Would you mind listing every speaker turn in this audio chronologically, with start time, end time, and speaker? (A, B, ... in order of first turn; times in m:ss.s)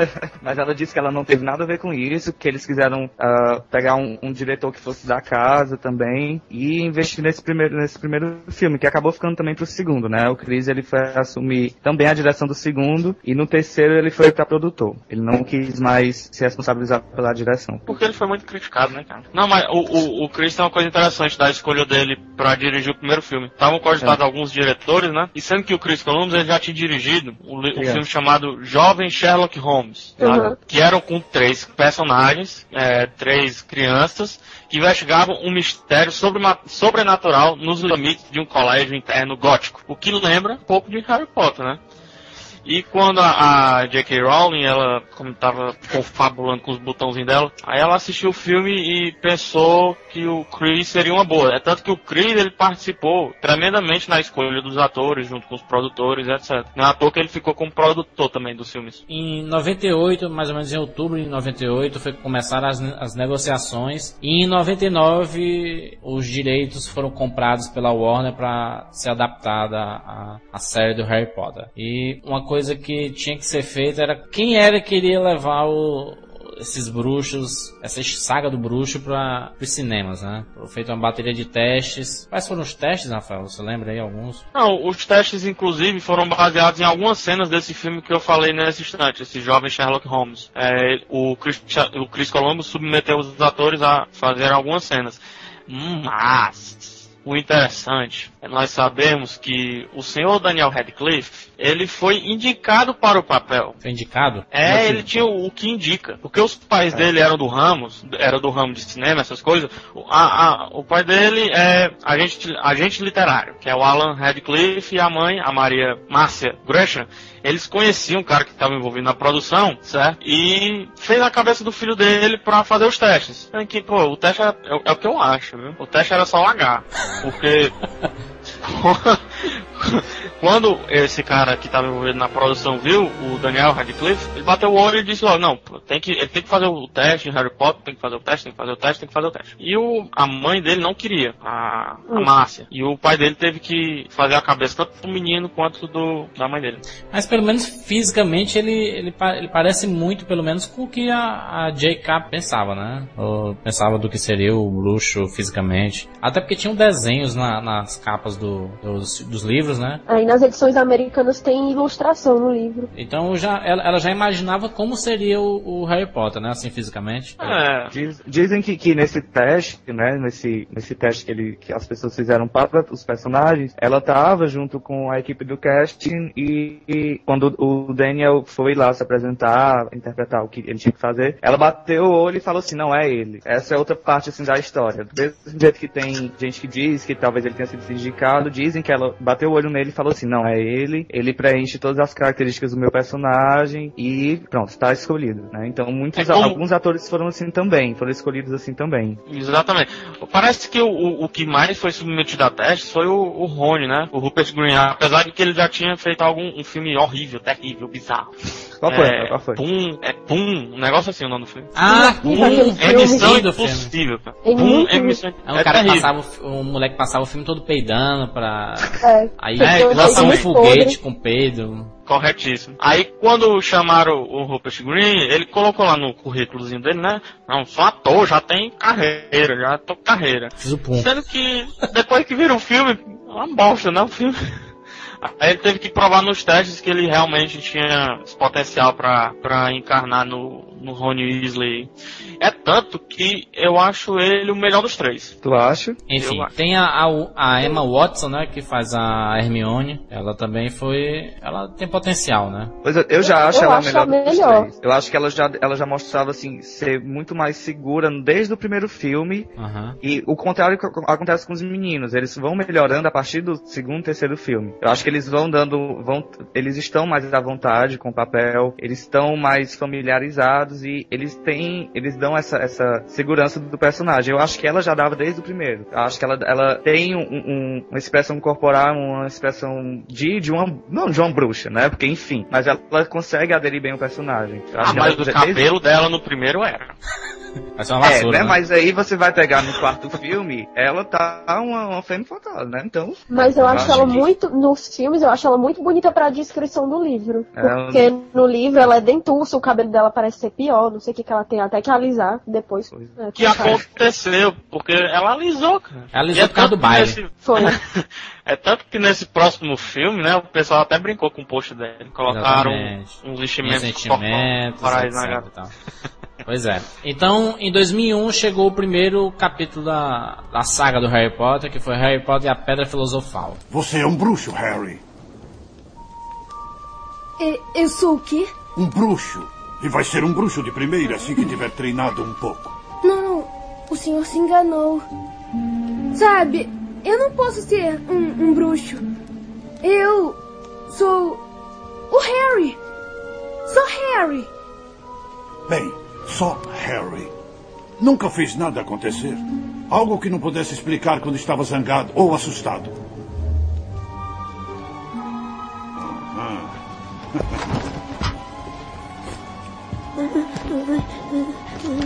0:00.4-0:17.9 A
0:17.9-0:41.8 B
0:27.7-0:28.0 A
0:30.2-0:30.5 A
0:30.2-0:30.6 C
0:42.6-0:59.0 B
0:59.1-1:24.4 D
1:24.5-1:43.8 B
1:43.8-1:45.0 D
1:44.5-2:07.8 B
2:08.6-2:26.8 B
2:27.1-2:40.0 D
2:40.1-2:42.9 C
2:42.9-2:47.6 D
2:47.4-2:47.9 B
2:47.9-3:19.2 A
3:16.1-3:16.6 B
3:19.3-3:28.3 B
3:28.8-3:29.6 A
3:28.8-3:36.1 B
3:31.7-3:33.9 D
3:31.9-3:33.4 C
3:34.4-3:35.2 C
3:35.4-3:41.9 D
3:39.0-3:41.0 C
3:39.6-3:40.4 B
3:42.1-3:54.6 B
3:50.6-3:51.1 D
3:55.2-4:05.4 B
4:05.4-4:06.0 A
4:06.1-4:12.7 D
4:06.1-4:06.5 B
4:12.8-4:19.5 A
4:13.2-4:14.7 C
4:19.6-4:20.0 D
4:20.0-4:45.6 A
4:44.8-4:46.9 B
4:47.8-4:48.6 D
4:48.0-4:54.2 A
4:53.3-5:03.8 C
4:53.6-4:54.2 D
4:57.6-4:58.1 A
5:02.9-5:03.8 A
5:03.4-5:15.4 B
5:06.1-5:07.2 D
5:07.4-5:07.8 C
5:12.2-5:15.7 D
5:16.4-5:23.6 D
5:23.7-5:25.0 E
5:27.4-5:28.5 F
5:28.7-5:32.7 E
5:33.0-5:35.0 F
5:36.1-5:39.0 F
5:39.8-5:40.4 F
5:40.9-5:41.4 F
5:42.1-5:42.8 F
5:43.7-5:44.5 F
5:45.7-5:47.3 E
5:48.0-5:52.9 E
5:56.0-5:56.7 E